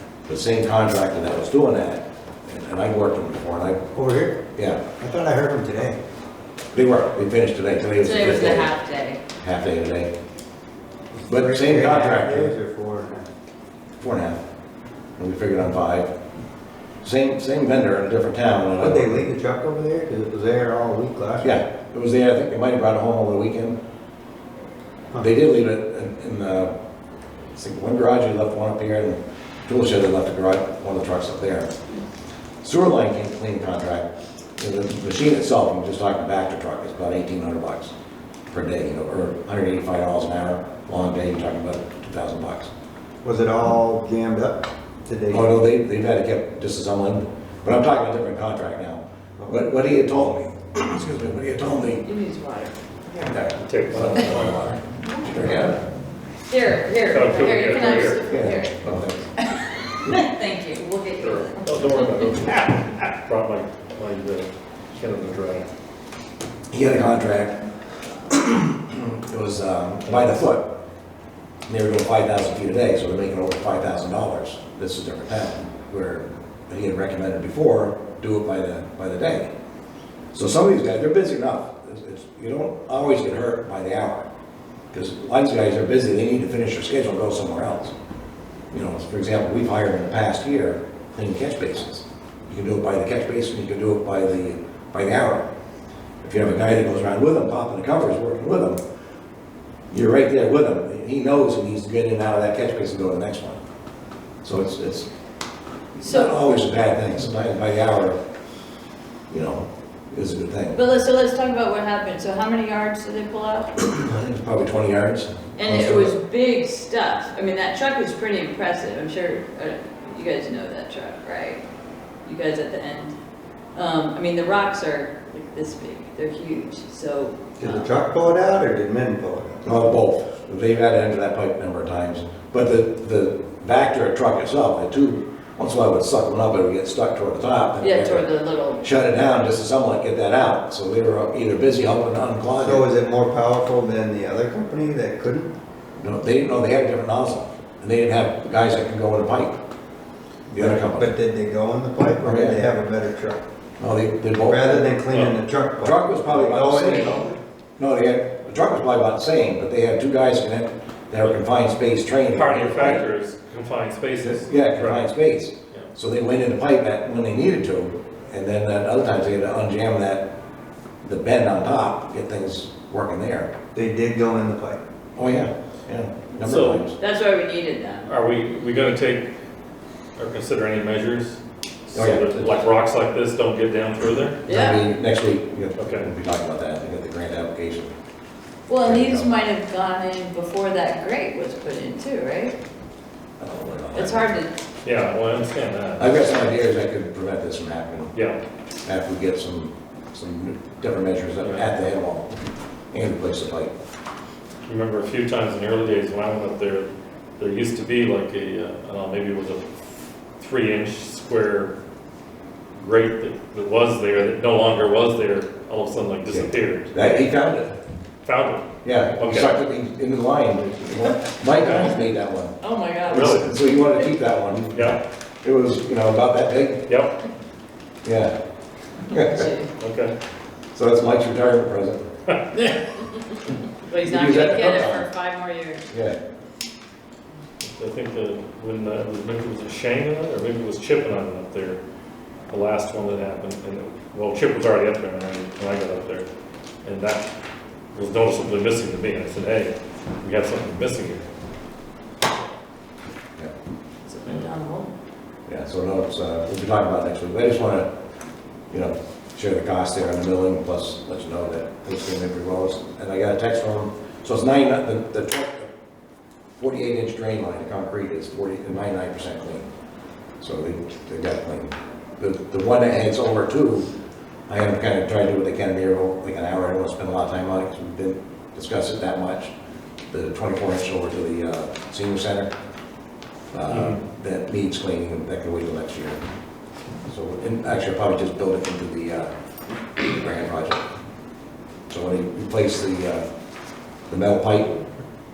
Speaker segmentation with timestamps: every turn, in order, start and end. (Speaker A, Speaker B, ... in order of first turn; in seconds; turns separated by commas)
Speaker A: 0.3-3.8, Speaker B: 3.9-4.4, Speaker A: 4.5-4.8, Speaker B: 5.0-6.0, Speaker A: 6.7-8.7, Speaker C: 8.0-9.2, Speaker A: 9.4-10.1, Speaker B: 11.2-13.3, Speaker A: 11.3-12.5, Speaker A: 14.0-14.4, Speaker A: 15.2-16.1, Speaker A: 17.0-19.2, Speaker B: 18.8-21.5, Speaker A: 21.4-23.8, Speaker A: 25.2-26.7, Speaker A: 27.5-31.7, Speaker A: 32.6-37.9, Speaker A: 38.5-42.7, Speaker B: 43.2-45.5, Speaker A: 45.3-52.0, Speaker B: 49.4-49.6, Speaker C: 52.0-53.2, Speaker A: 53.2-55.8, Speaker D: 53.6-54.7, Speaker C: 55.0-55.6, Speaker C: 56.5-58.8, Speaker D: 57.1-58.2, Speaker A: 58.3-59.3, Speaker C: 59.4-62.1, Speaker D: 61.2-65.7, Speaker A: 66.7-67.6, Speaker A: 68.2-70.7, Speaker A: 71.7-79.5, Speaker A: 80.3-84.3, Speaker A: 84.9-87.9, Speaker A: 88.7-95.5, Speaker A: 96.2-98.8, Speaker A: 99.9-103.6, Speaker A: 104.4-105.1, Speaker A: 106.0-108.2, Speaker C: 106.0-106.4, Speaker A: 109.3-110.8, Speaker C: 110.7-113.7, Speaker A: 113.8-116.1, Speaker C: 115.6-121.6, Speaker C: 122.2-123.2, Speaker C: 123.7-127.8, Speaker B: 127.6-129.6, Speaker A: 129.6-138.3, Speaker C: 137.8-138.8, Speaker A: 138.8-142.8, Speaker B: 142.6-145.5, Speaker A: 146.0-149.6, Speaker B: 150.5-153.4, Speaker A: 150.5-151.1, Speaker A: 152.2-152.6, Speaker A: 153.8-155.0, Speaker B: 154.4-157.4, Speaker A: 155.8-157.3, Speaker A: 157.8-163.0, Speaker D: 162.3-165.1, Speaker A: 164.4-170.3, Speaker A: 171.0-173.5, Speaker B: 173.7-174.8, Speaker A: 175.2-176.9, Speaker D: 176.4-176.8, Speaker C: 176.5-178.1, Speaker D: 178.1-179.3, Speaker D: 180.2-184.4, Speaker A: 181.9-182.6, Speaker C: 184.4-184.9, Speaker A: 184.5-187.9, Speaker D: 185.8-186.1, Speaker C: 188.7-192.5, Speaker A: 188.8-189.3, Speaker A: 193.4-194.3, Speaker C: 193.9-194.5, Speaker D: 194.8-196.1, Speaker A: 196.0-198.1, Speaker A: 198.8-202.3, Speaker A: 202.9-203.7, Speaker D: 204.7-211.7, Speaker D: 212.8-217.1, Speaker A: 216.3-217.7, Speaker D: 218.2-219.6, Speaker A: 218.8-222.5, Speaker C: 221.6-222.0, Speaker C: 222.6-224.1, Speaker A: 223.1-226.8, Speaker D: 223.1-223.5, Speaker D: 224.7-225.0, Speaker D: 226.9-227.1, Speaker A: 228.0-228.3, Speaker C: 229.0-229.7, Speaker A: 229.1-229.5, Speaker D: 229.8-230.1, Speaker A: 230.7-232.0, Speaker C: 232.5-235.8, Speaker A: 234.0-235.1, Speaker A: 235.9-236.2, Speaker D: 237.6-241.8, Speaker D: 242.5-246.2, Speaker D: 246.8-247.3, Speaker D: 247.9-251.3, Speaker C: 254.1-254.9, Speaker A: 255.5-257.9, Speaker A: 258.7-265.7, Speaker A: 266.6-269.6, Speaker A: 270.4-273.9, Speaker A: 274.5-279.5, Speaker A: 280.1-282.5, Speaker A: 283.5-286.2, Speaker D: 283.7-284.0, Speaker A: 287.1-289.3, Speaker A: 290.0-290.8, Speaker A: 291.9-293.2, Speaker A: 294.1-294.7